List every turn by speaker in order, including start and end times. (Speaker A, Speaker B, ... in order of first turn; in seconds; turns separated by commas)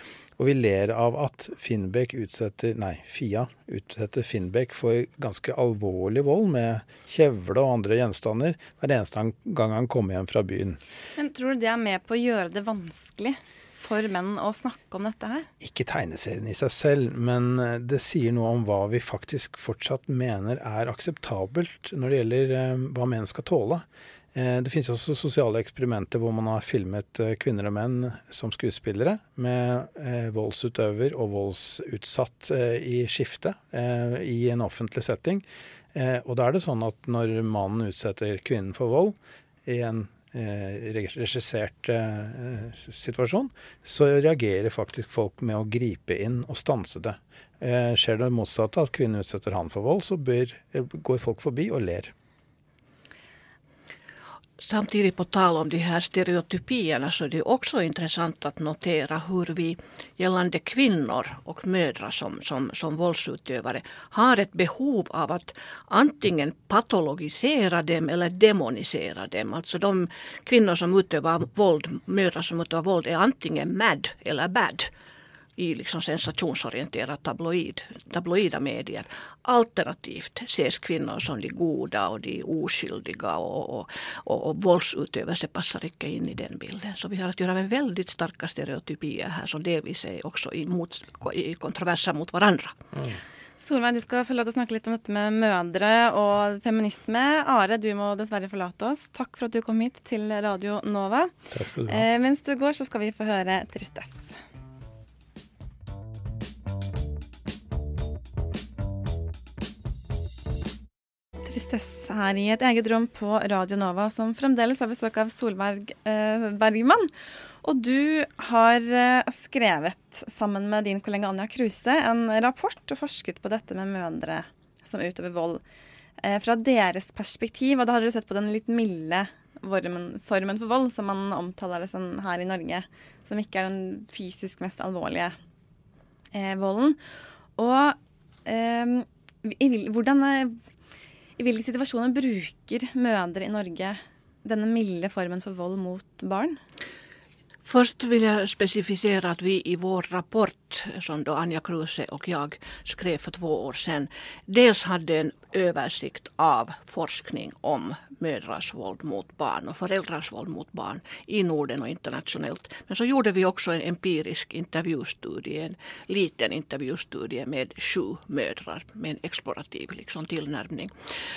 Speaker A: 0.4-10.8, Speaker B: 11.2-15.5, Speaker A: 15.6-52.1, Speaker C: 54.6-74.9, Speaker C: 75.6-92.8, Speaker A: 92.9-93.2, Speaker B: 93.6-101.3, Speaker A: 101.5-102.1, Speaker B: 101.9-104.3, Speaker B: 111.5-117.1, Speaker B: 117.6-125.6, Speaker B: 126.2-135.4, Speaker B: 136.3-137.0, Speaker B: 137.6-140.6, Speaker B: 141.4-146.6, Speaker C: 147.7-170.9